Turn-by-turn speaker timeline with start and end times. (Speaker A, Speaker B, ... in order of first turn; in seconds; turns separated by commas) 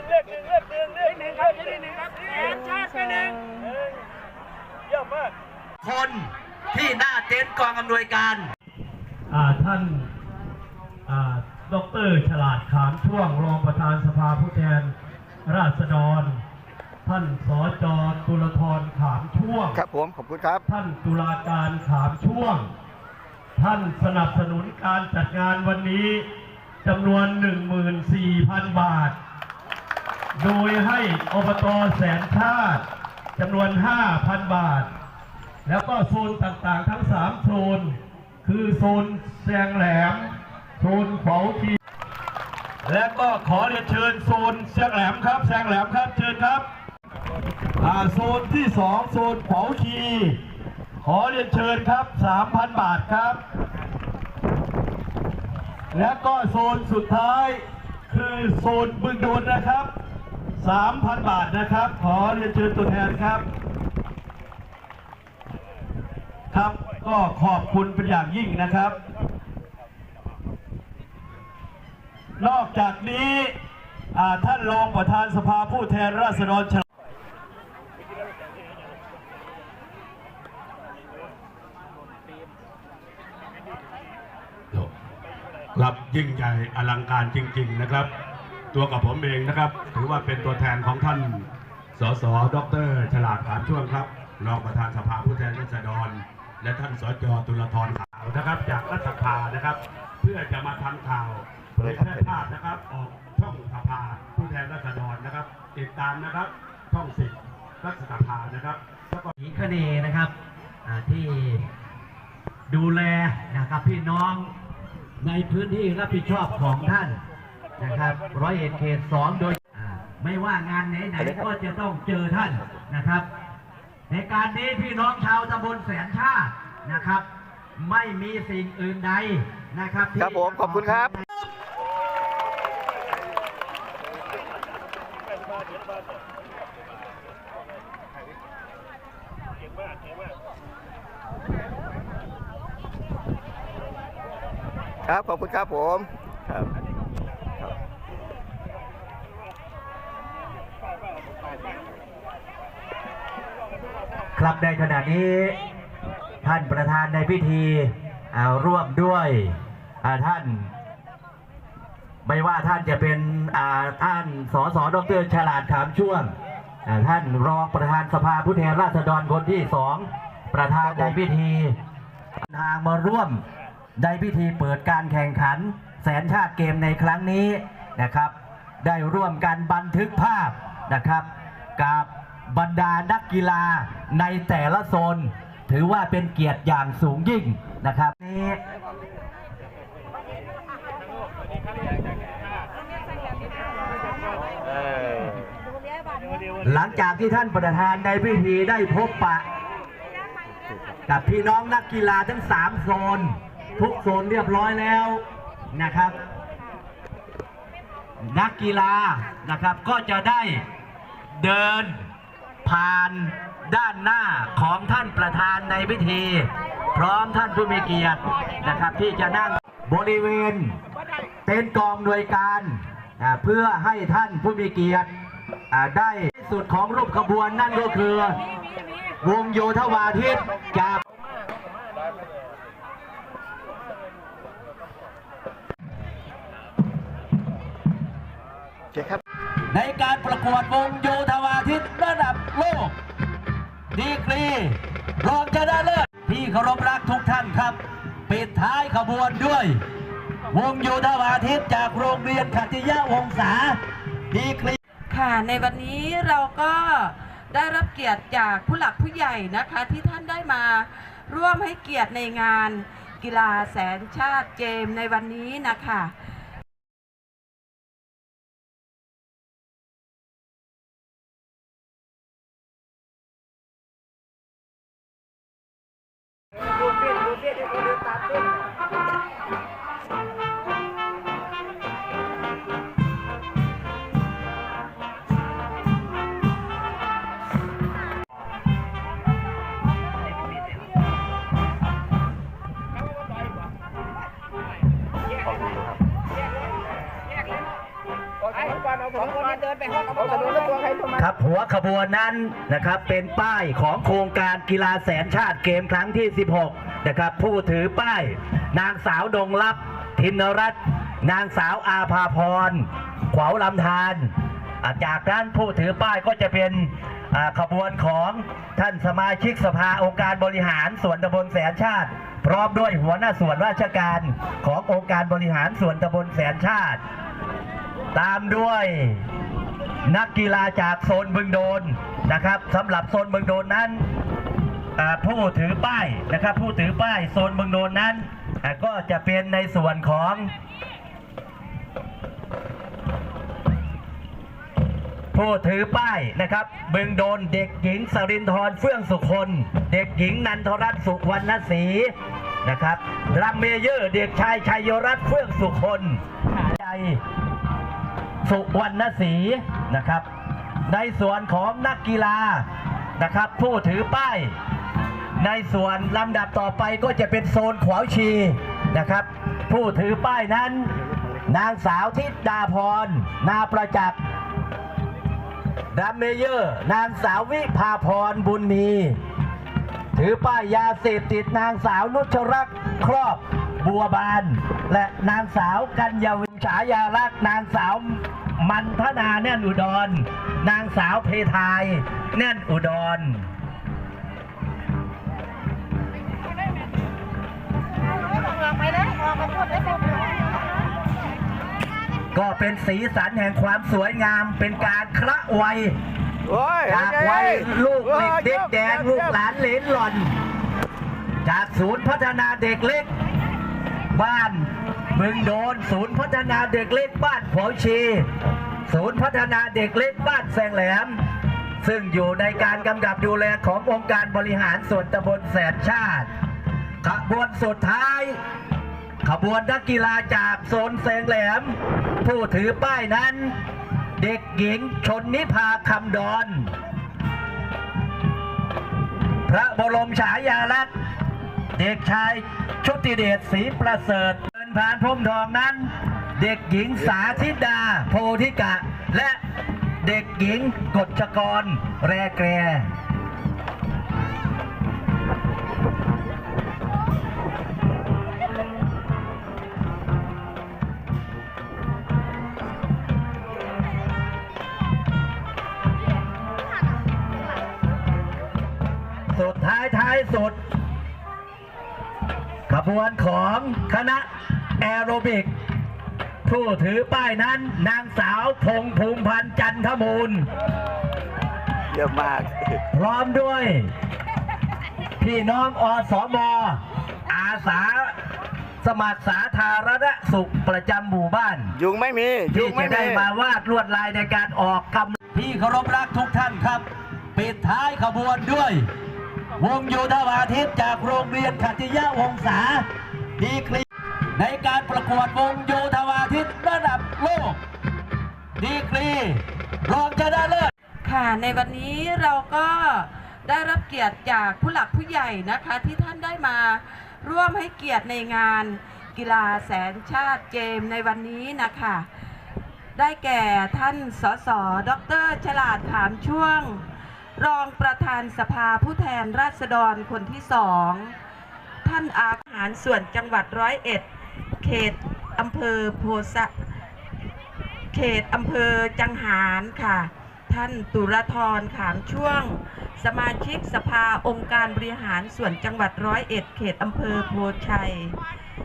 Speaker A: 5.8-8.5, Speaker B: 9.3-10.1, Speaker B: 11.1-14.9, Speaker B: 15.4-16.4, Speaker B: 17.1-19.8, Speaker C: 19.7-20.6, Speaker B: 20.7-22.7, Speaker B: 23.6-26.3, Speaker B: 26.8-29.1, Speaker B: 30.4-32.8, Speaker B: 33.4-34.9, Speaker B: 35.6-41.8, Speaker B: 42.8-46.6, Speaker B: 47.8-50.4, Speaker B: 51.0-53.4, Speaker B: 55.9-59.9, Speaker B: 60.6-63.5, Speaker B: 66.5-69.0, Speaker B: 72.4-73.5, Speaker B: 74.1-76.8, Speaker D: 85.7-88.1, Speaker D: 88.7-109.3, Speaker C: 101.8-102.3, Speaker A: 109.4-110.3, Speaker A: 110.8-111.7, Speaker A: 112.7-114.5, Speaker A: 115.2-117.2, Speaker A: 117.8-123.3, Speaker A: 124.1-127.2, Speaker A: 127.8-131.2, Speaker C: 130.2-131.1, Speaker C: 145.1-146.7, Speaker A: 154.3-155.6, Speaker A: 156.4-160.7, Speaker A: 162.2-166.3, Speaker A: 166.8-171.8, Speaker A: 172.4-173.4, Speaker A: 174.0-188.6, Speaker A: 196.6-199.4, Speaker A: 201.1-206.2, Speaker A: 208.2-210.6, Speaker A: 211.3-212.1, Speaker A: 212.6-220.8, Speaker A: 221.4-225.1, Speaker A: 225.7-228.4, Speaker A: 229.2-231.0, Speaker C: 238.9-239.2, Speaker A: 239.7-242.9, Speaker A: 243.9-249.8, Speaker A: 250.5-253.8, Speaker A: 254.3-254.8, Speaker E: 255.1-266.1, Speaker C: 300.5-301.0, Speaker A: 301.1-327.0, Speaker A: 328.1-329.2, Speaker A: 330.1-334.0, Speaker A: 335.0-340.5, Speaker A: 345.3-352.1, Speaker A: 352.6-357.2, Speaker A: 358.4-360.2, Speaker A: 360.9-362.7, Speaker A: 363.2-364.5, Speaker A: 365.4-370.9, Speaker A: 371.5-374.2, Speaker A: 375.9-379.2, Speaker A: 380.1-393.5, Speaker A: 402.3-405.9, Speaker C: 406.4-409.4, Speaker A: 406.9-410.3, Speaker A: 411.4-413.1, Speaker A: 414.1-418.3, Speaker A: 418.9-421.1, Speaker A: 421.8-426.3, Speaker A: 427.0-428.4, Speaker A: 429.2-433.6, Speaker A: 434.2-436.7, Speaker A: 439.4-440.9, Speaker A: 441.8-449.4, Speaker A: 450.0-452.9, Speaker A: 469.3-470.6, Speaker A: 472.7-475.5, Speaker A: 476.4-480.5, Speaker C: 481.9-482.8, Speaker A: 482.9-483.9, Speaker A: 485.2-488.1, Speaker A: 488.8-491.7, Speaker C: 491.7-493.2, Speaker A: 492.5-498.9, Speaker A: 499.6-502.9, Speaker A: 503.4-507.6, Speaker A: 508.6-510.7, Speaker E: 511.0-522.1, Speaker E: 523.0-531.1, Speaker E: 531.8-534.0, Speaker E: 534.6-536.5, Speaker E: 537.9-548.2